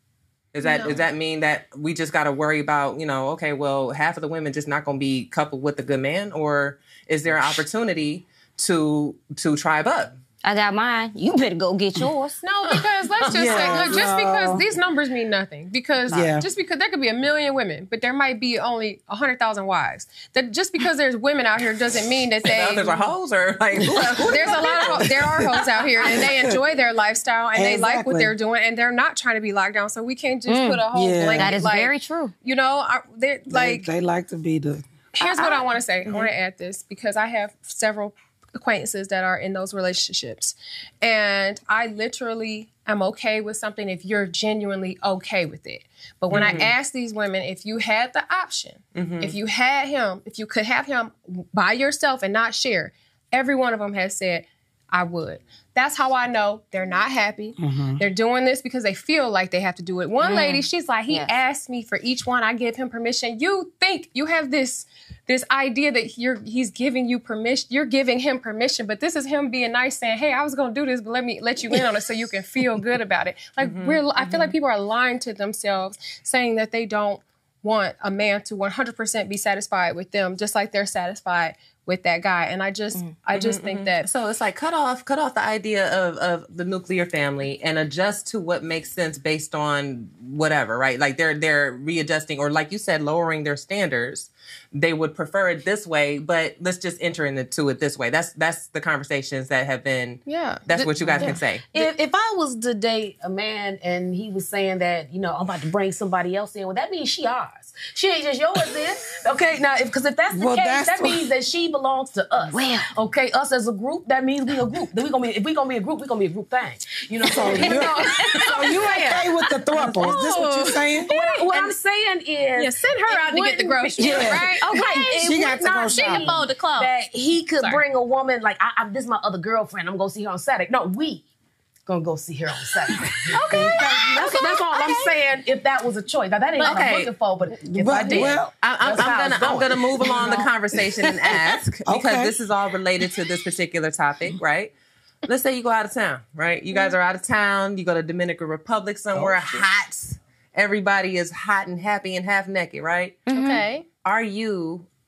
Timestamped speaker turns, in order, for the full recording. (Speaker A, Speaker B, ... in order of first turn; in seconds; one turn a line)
Speaker A: 0.5-10.2
Speaker B: 0.6-1.0
Speaker C: 10.4-12.4
Speaker B: 12.4-23.1
Speaker A: 13.2-13.7
Speaker D: 13.3-14.7
Speaker D: 16.1-16.5
Speaker A: 22.5-25.2
Speaker B: 24.3-33.9
Speaker D: 25.0-25.4
Speaker D: 26.1-26.6
Speaker D: 27.6-28.3
Speaker C: 30.5-30.9
Speaker D: 30.9-31.6
Speaker C: 31.4-32.3
Speaker D: 33.5-34.9
Speaker B: 35.1-84.1
Speaker C: 35.2-35.6
Speaker A: 46.3-46.7
Speaker A: 49.0-49.4
Speaker D: 57.6-58.0
Speaker C: 60.2-61.3
Speaker A: 73.6-74.5
Speaker A: 83.3-101.8
Speaker B: 100.3-101.4
Speaker E: 101.2-120.2
Speaker D: 110.3-111.3
Speaker C: 112.5-112.9
Speaker D: 117.3-121.1
Speaker B: 117.6-118.8
Speaker B: 119.9-121.8
Speaker E: 121.1-131.2
Speaker B: 122.5-127.0
Speaker D: 124.0-126.5
Speaker B: 127.6-127.8
Speaker E: 131.9-140.5
Speaker B: 133.3-135.2
Speaker D: 133.5-134.1
Speaker B: 136.6-136.8
Speaker A: 136.6-137.1
Speaker D: 137.6-138.5
Speaker A: 138.1-144.7
Speaker D: 140.0-141.1
Speaker D: 141.9-142.3
Speaker A: 145.3-153.2
Speaker C: 153.3-153.7
Speaker B: 153.3-153.9
Speaker A: 154.0-154.9